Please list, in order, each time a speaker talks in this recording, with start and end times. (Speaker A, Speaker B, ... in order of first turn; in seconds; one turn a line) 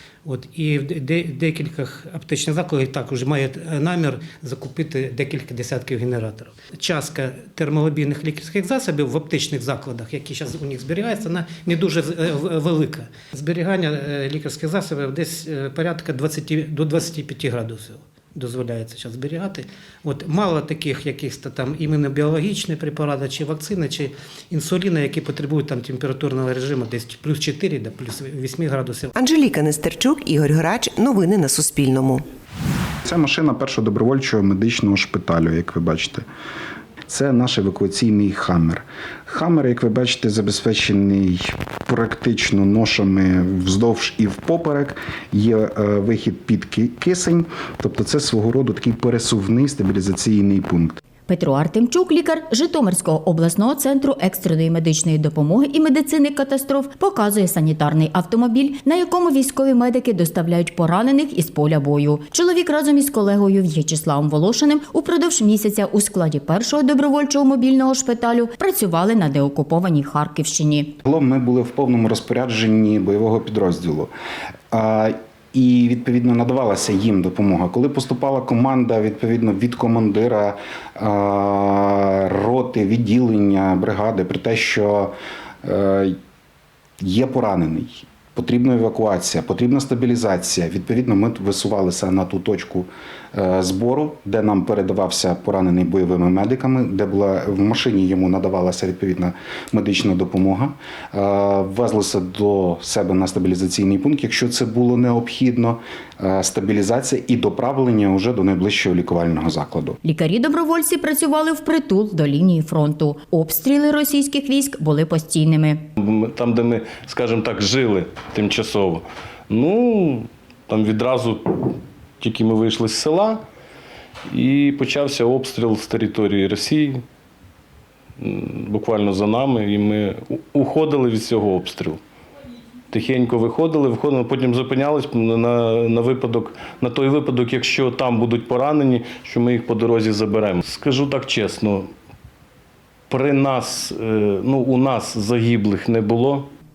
Speaker A: 0.2-29.1
Speaker B: 29.1-32.2
Speaker C: 33.0-36.2
Speaker C: 37.1-51.0
Speaker D: 51.3-70.9
Speaker C: 71.0-74.1
Speaker C: 74.7-86.2
Speaker C: 87.0-110.0
Speaker D: 110.0-115.9
Speaker E: 116.0-123.4
Speaker E: 124.3-127.0
Speaker E: 128.2-132.0
Speaker E: 132.9-141.9
Speaker E: 143.1-146.5